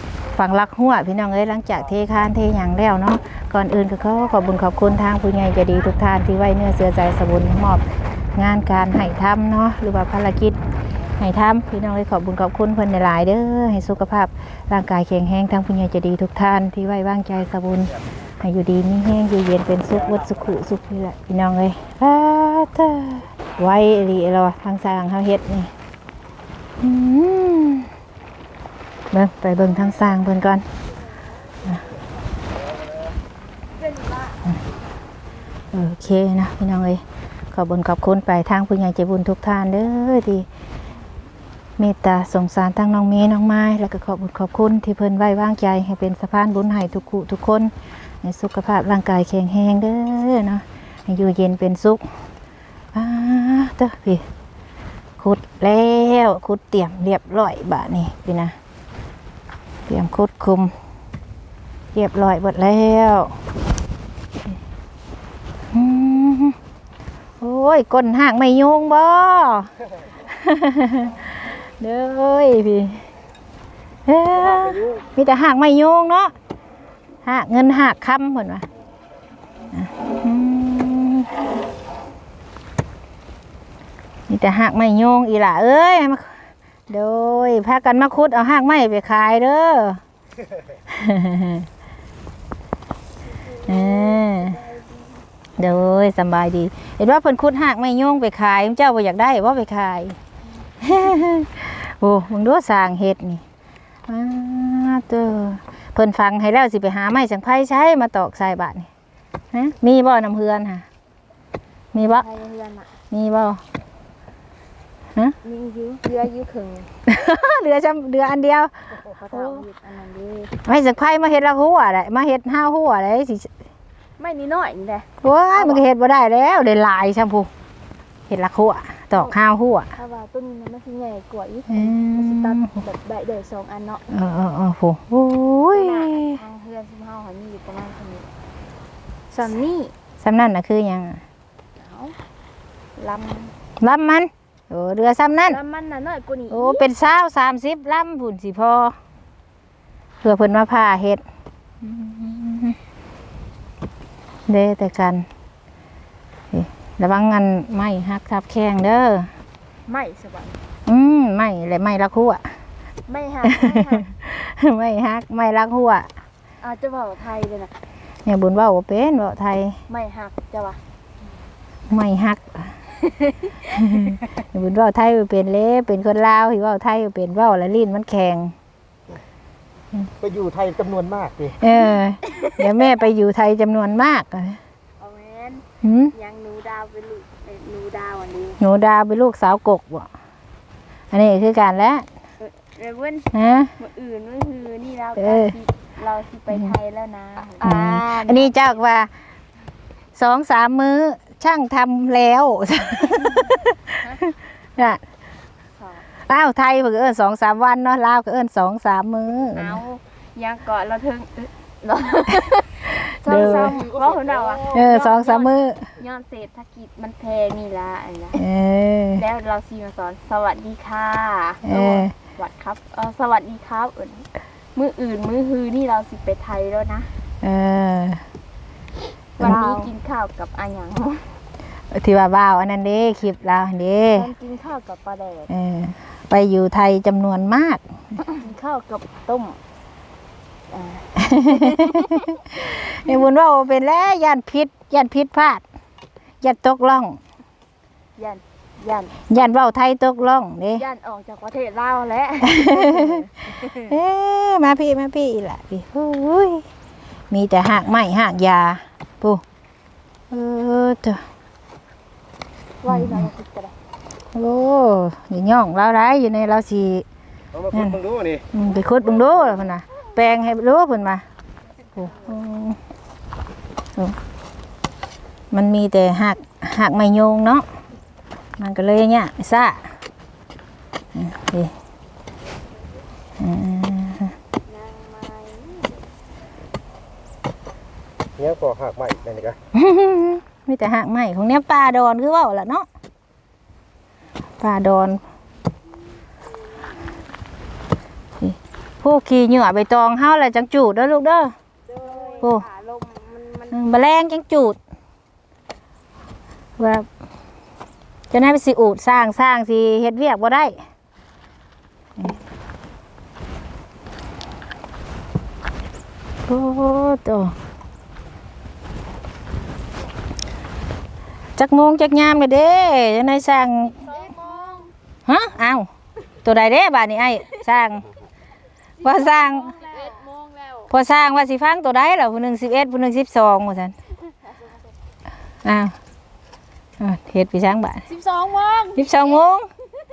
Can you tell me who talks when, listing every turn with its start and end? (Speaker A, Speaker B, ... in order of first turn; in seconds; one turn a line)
Speaker A: 0.3-7.8
Speaker A: 8.3-10.6
Speaker A: 11.2-25.7
Speaker A: 26.8-27.9
Speaker A: 29.1-30.7
Speaker B: 33.9-34.4
Speaker A: 35.7-40.5
Speaker A: 41.8-52.0
Speaker A: 52.9-54.2
Speaker A: 55.2-58.5
Speaker A: 59.9-60.7
Speaker A: 61.9-63.4
Speaker A: 65.7-66.6
Speaker A: 67.4-73.1
Speaker A: 74.1-76.3
Speaker A: 77.2-78.7
Speaker A: 79.7-81.4
Speaker A: 84.3-90.0
Speaker A: 90.9-91.7
Speaker B: 93.4-94.9
Speaker A: 93.7-94.6
Speaker A: 95.6-100.2
Speaker A: 100.8-103.4
Speaker A: 104.1-108.9
Speaker A: 109.5-110.8
Speaker A: 111.9-112.3
Speaker B: 112.0-112.9
Speaker A: 113.1-113.6
Speaker B: 115.4-116.9
Speaker A: 117.1-118.7
Speaker B: 119.0-120.5
Speaker A: 119.3-119.7
Speaker A: 120.6-123.5
Speaker B: 124.2-125.9
Speaker A: 125.2-127.5
Speaker A: 128.3-129.9
Speaker B: 129.9-134.0
Speaker A: 131.7-132.7
Speaker A: 134.1-136.4
Speaker B: 135.7-138.3
Speaker B: 139.3-139.9
Speaker A: 140.2-141.2
Speaker B: 141.8-142.2
Speaker B: 143.0-143.5
Speaker A: 143.8-145.6
Speaker B: 145.5-146.9
Speaker A: 146.5-149.0
Speaker A: 150.2-151.2
Speaker A: 151.8-152.8
Speaker A: 154.5-155.3
Speaker A: 156.5-159.3
Speaker B: 159.9-160.6
Speaker A: 160.9-162.6
Speaker B: 163.1-164.1
Speaker A: 163.4-166.1
Speaker B: 166.6-167.8
Speaker A: 168.2-169.8
Speaker B: 169.9-170.8
Speaker A: 171.9-172.8
Speaker A: 173.7-178.6
Speaker C: 180.2-181.4
Speaker A: 181.6-184.6
Speaker B: 185.0-188.6
Speaker A: 185.8-186.1
Speaker A: 188.6-190.1
Speaker A: 191.1-192.1
Speaker B: 192.4-198.5
Speaker A: 193.3-193.7
Speaker A: 195.2-195.6
Speaker A: 196.5-196.8
Speaker A: 197.6-199.1
Speaker A: 200.2-205.0
Speaker B: 205.8-206.1
Speaker A: 206.2-209.8
Speaker B: 209.5-218.4
Speaker A: 212.9-213.8
Speaker A: 214.7-215.9
Speaker A: 218.3-219.2
Speaker B: 219.2-227.1
Speaker A: 221.7-222.1
Speaker A: 227.4-228.2
Speaker A: 229.4-229.9
Speaker B: 229.4-231.3
Speaker A: 231.9-234.3
Speaker B: 234.1-235.5
Speaker A: 235.5-237.8
Speaker B: 238.2-239.6
Speaker B: 240.7-242.3
Speaker A: 241.2-245.6
Speaker A: 246.4-247.2
Speaker B: 248.2-249.5
Speaker A: 249.3-250.8
Speaker B: 250.8-253.8
Speaker A: 252.5-256.7
Speaker A: 257.3-259.4
Speaker A: 260.3-261.3
Speaker B: 262.8-263.8
Speaker A: 262.9-263.3
Speaker A: 264.4-267.1
Speaker A: 267.7-271.2
Speaker A: 272.0-272.8
Speaker A: 275.5-277.7
Speaker A: 278.6-279.9
Speaker A: 281.1-281.7
Speaker A: 283.4-284.4
Speaker B: 284.7-286.0
Speaker C: 288.4-289.4
Speaker A: 289.7-292.9
Speaker A: 294.6-295.2
Speaker A: 298.4-301.6
Speaker B: 301.9-303.8
Speaker A: 302.4-302.7
Speaker A: 303.7-304.8
Speaker A: 306.8-307.1
Speaker A: 308.3-310.8
Speaker A: 316.5-317.6
Speaker A: 321.6-324.1
Speaker B: 324.0-324.9
Speaker A: 325.3-325.9
Speaker A: 326.4-328.1
Speaker A: 329.0-329.8
Speaker B: 329.0-330.9
Speaker A: 330.9-333.9
Speaker A: 335.6-336.0
Speaker A: 337.0-338.1
Speaker B: 338.1-339.3
Speaker A: 338.9-339.7